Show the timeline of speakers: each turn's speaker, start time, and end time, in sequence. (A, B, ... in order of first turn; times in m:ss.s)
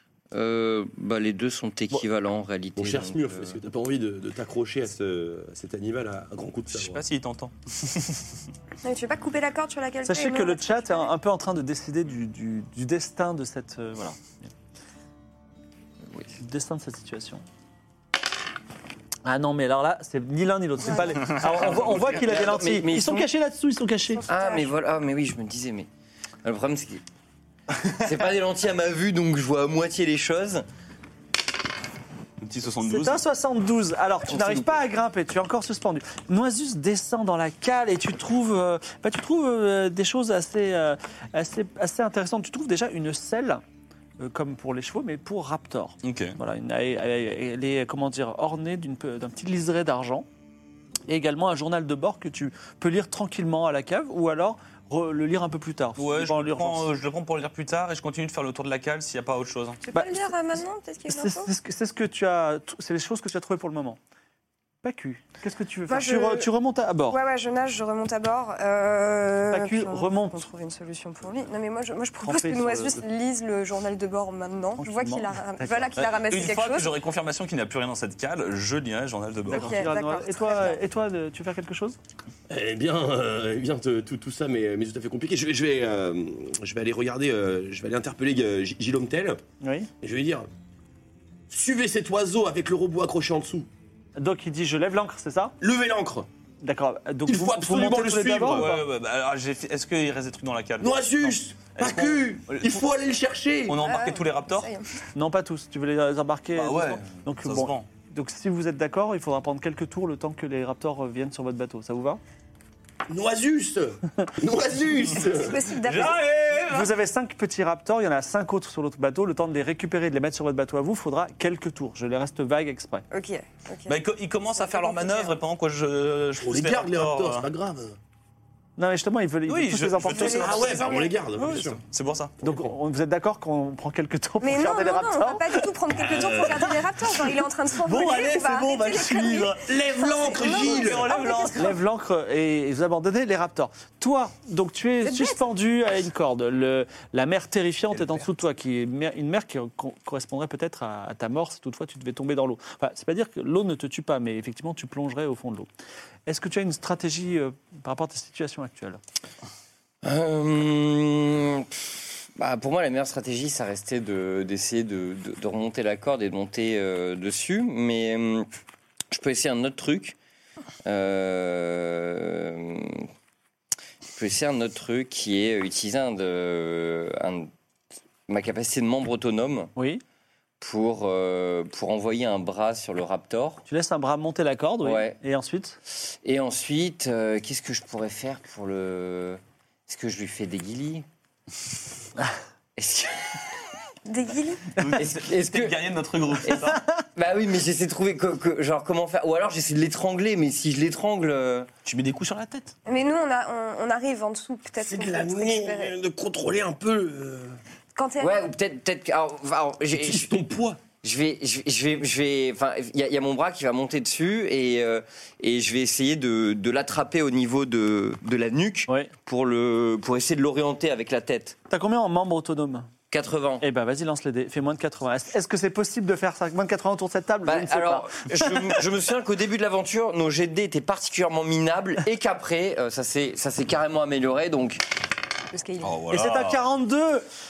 0:00.3-0:03.6 A
0:02.8-0:07.0 B
0:06.7-0:08.2 C
0:08.8-0:11.1 D
0:10.0-0:14.5 E
0:16.4-0:17.4 E
0:19.2-0:24.3 E
0:20.9-0:21.2 D
0:21.3-0:22.0 C
0:21.3-0:23.3 A
0:24.1-0:24.7 D
0:24.3-0:25.9 A
0:26.4-0:27.0 A
0:27.8-0:30.6 A
0:32.4-0:33.2 C
0:32.8-0:43.6 E
0:34.3-0:34.7 A
0:44.2-0:50.3 E
0:46.0-0:46.4 C
0:51.1-0:56.9 E
0:56.0-0:59.8 C
0:59.8-1:01.5 D
0:59.9-1:00.3 E
1:01.1-1:04.0 E
1:04.8-1:07.2 E
1:05.9-1:06.5 D
1:07.1-1:17.0 D
1:09.5-1:10.5 E
1:12.2-1:13.0 E
1:14.8-1:15.9 E
1:16.0-1:19.8 C
1:19.5-1:22.0 E
1:19.5-1:20.8 D
1:22.5-1:29.4 B
1:29.6-1:29.9 E
1:30.0-1:30.5 B
1:31.5-1:33.7 B
1:34.2-1:35.6 E
1:35.6-1:36.3 B
1:36.6-1:38.8 E
1:37.3-1:38.8 B
1:38.4-1:42.8 C
1:40.8-1:43.9 B
1:43.7-1:44.7 C
1:43.8-1:44.9 D
1:45.2-1:52.2 E
1:46.6-1:47.9 C
1:53.1-1:55.6 B
1:55.4-1:56.3 D
1:55.7-1:56.9 C
1:56.7-2:03.1 E
2:03.1-2:04.0 D
2:03.9-2:07.5 C
2:04.6-2:05.4 D
2:06.4-2:08.0 B
2:08.8-2:10.8 E
2:09.5-2:10.9 C
2:10.2-2:11.1 D
2:10.2-2:11.8 B
2:11.4-2:11.7 E
2:11.8-2:12.4 C
2:12.4-2:12.7 B
2:12.4-2:15.7 E
2:14.4-2:21.8 D
2:16.1-2:16.5 C
2:17.8-2:19.7 C
2:19.6-2:21.2 B
2:20.4-2:21.6 C
2:21.1-2:35.7 E
2:25.0-2:25.4 D
2:36.3-2:39.0 E
2:40.0-2:48.5 A
2:49.1-2:50.2 A
2:50.8-2:53.1 A
2:54.2-2:57.5 A
2:58.3-2:59.7 A
2:59.8-3:00.0 E
3:00.6-3:03.6 A
3:03.7-3:05.8 E
3:04.8-3:05.2 A
3:06.0-3:11.1 A
3:12.8-3:13.4 A
3:14.1-3:14.8 D
3:14.8-3:16.8 C
3:15.0-3:15.8 A
3:16.4-3:21.7 A
3:21.8-3:22.7 C
3:22.9-3:25.9 D
3:24.8-3:27.6 B
3:28.0-3:28.5 D
3:28.2-3:30.4 A
3:29.9-3:30.8 B
3:31.0-3:41.6 A
3:41.7-3:42.9 E
3:43.1-3:43.6 A
3:43.6-3:48.7 E
3:47.4-3:54.8 A
3:55.5-3:56.0 D
3:55.8-3:56.6 C
3:56.1-3:57.3 E